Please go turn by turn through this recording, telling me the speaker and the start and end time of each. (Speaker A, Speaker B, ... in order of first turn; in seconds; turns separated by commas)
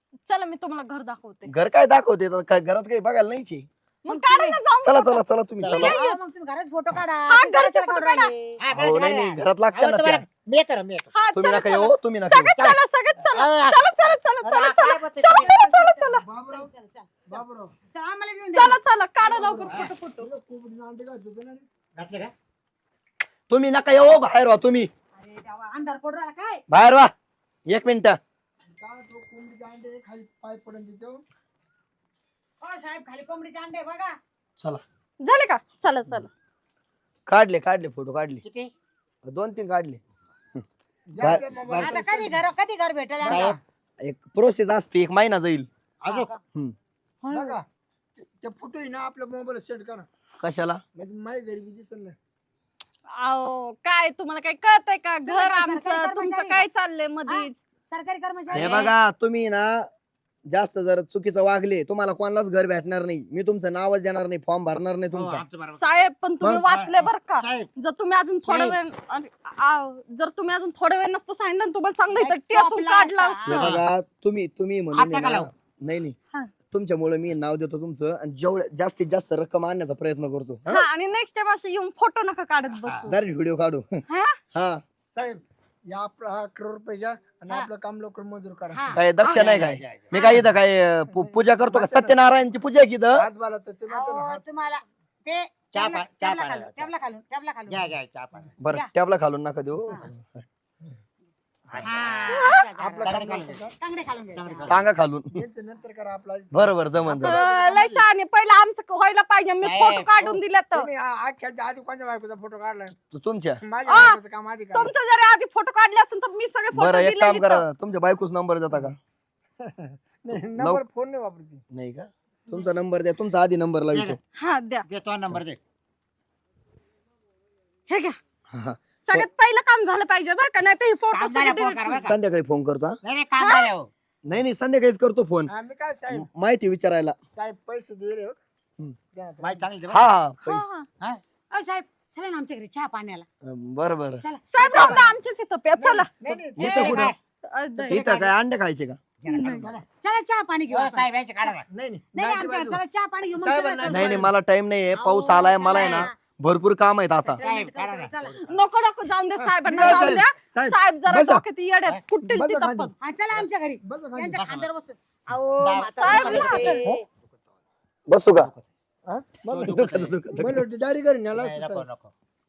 Speaker A: 0.3-1.5, Speaker B: 1.5-3.7, Speaker A: 4.0-5.2, Speaker C: 4.1-4.6, Speaker B: 4.8-6.0, Speaker D: 5.6-6.0, Speaker C: 5.8-8.6, Speaker A: 7.3-8.3, Speaker D: 8.6-11.1, Speaker B: 8.7-10.2, Speaker A: 11.1-16.2, Speaker B: 11.3-12.5, Speaker D: 12.6-13.8, Speaker D: 14.4-15.6, Speaker C: 15.6-18.8, Speaker E: 16.2-16.7, Speaker E: 17.3-17.7, Speaker A: 18.5-20.3, Speaker E: 19.2-21.6, Speaker D: 21.9-22.3, Speaker B: 23.5-24.9, Speaker C: 25.1-26.6, Speaker B: 26.7-27.1, Speaker B: 27.7-28.2, Speaker E: 28.7-31.2, Speaker C: 32.6-34.2, Speaker A: 35.2-36.3, Speaker B: 37.3-38.4, Speaker D: 38.4-38.7, Speaker B: 39.2-40.0, Speaker E: 41.1-42.4, Speaker B: 41.2-42.0, Speaker C: 41.7-43.6, Speaker E: 43.2-43.6, Speaker D: 43.3-43.6, Speaker B: 44.0-45.7, Speaker D: 46.0-46.4, Speaker A: 47.2-47.6, Speaker E: 47.3-47.6, Speaker E: 48.4-50.1, Speaker B: 50.4-50.8, Speaker E: 50.9-52.1, Speaker A: 53.2-57.6, Speaker C: 55.3-56.6, Speaker C: 57.3-58.9, Speaker B: 58.5-59.9, Speaker A: 58.6-58.9, Speaker B: 60.5-65.4, Speaker D: 65.1-67.7, Speaker A: 65.7-73.5, Speaker D: 68.4-68.8, Speaker C: 72.2-73.8, Speaker B: 73.5-76.2, Speaker D: 73.5-73.8, Speaker D: 74.9-75.5, Speaker B: 76.7-80.8, Speaker A: 80.7-83.2, Speaker D: 82.8-83.1, Speaker B: 83.1-84.0, Speaker A: 84.1-84.4, Speaker B: 84.5-84.8, Speaker E: 85.1-88.8, Speaker C: 88.7-89.0, Speaker D: 88.9-90.3, Speaker B: 88.9-93.2, Speaker E: 91.1-92.1, Speaker E: 93.2-94.4, Speaker C: 93.9-97.9, Speaker D: 95.7-96.9, Speaker D: 97.7-98.5, Speaker B: 98.6-100.4, Speaker D: 101.7-102.4, Speaker C: 101.8-104.8, Speaker A: 102.3-102.6, Speaker E: 102.8-103.7, Speaker D: 103.0-103.6, Speaker D: 104.3-104.8, Speaker B: 104.7-105.4, Speaker E: 105.3-108.0, Speaker B: 106.5-107.4, Speaker A: 107.2-110.9, Speaker D: 109.6-110.4, Speaker E: 110.7-112.9, Speaker B: 113.0-113.6, Speaker E: 113.6-114.9, Speaker A: 113.8-114.2, Speaker A: 114.7-117.6, Speaker B: 116.7-119.0, Speaker E: 119.6-121.6, Speaker B: 120.3-120.8, Speaker B: 121.7-124.2, Speaker D: 123.9-124.2, Speaker A: 124.4-124.8, Speaker D: 124.9-125.6, Speaker A: 127.9-128.2, Speaker B: 128.5-129.3, Speaker A: 129.0-132.1, Speaker D: 131.1-132.2, Speaker B: 132.0-133.0, Speaker D: 133.0-133.9, Speaker A: 133.4-133.7, Speaker B: 134.2-135.5, Speaker E: 135.5-136.3, Speaker B: 136.1-137.2, Speaker E: 137.3-138.4, Speaker E: 139.1-139.7, Speaker D: 139.4-140.1, Speaker B: 139.9-140.7, Speaker A: 140.4-140.9, Speaker C: 141.5-143.2, Speaker B: 143.4-145.0, Speaker C: 144.2-145.2, Speaker A: 144.5-146.2, Speaker E: 145.8-147.0, Speaker B: 146.6-147.1, Speaker C: 146.6-147.1, Speaker D: 146.7-147.2, Speaker A: 147.5-148.1, Speaker B: 147.9-149.0, Speaker C: 147.9-148.3, Speaker D: 149.2-149.8, Speaker A: 149.3-149.7, Speaker E: 149.6-149.8, Speaker C: 150.0-151.1, Speaker D: 150.7-151.6, Speaker E: 151.7-152.8, Speaker C: 152.1-154.2, Speaker E: 153.3-154.3, Speaker B: 153.9-157.4, Speaker C: 154.9-156.2, Speaker A: 155.7-156.1, Speaker C: 157.2-158.3, Speaker D: 157.4-158.4, Speaker A: 158.4-162.9, Speaker E: 159.3-161.4, Speaker E: 162.2-162.9, Speaker C: 163.0-166.9, Speaker E: 163.8-164.4, Speaker D: 164.4-164.7, Speaker D: 165.6-167.0, Speaker A: 166.0-166.9, Speaker B: 168.1-168.5, Speaker D: 168.3-168.6, Speaker E: 169.1-169.5, Speaker D: 169.5-170.2, Speaker B: 169.5-170.6, Speaker E: 170.3-171.9, Speaker D: 171.3-172.1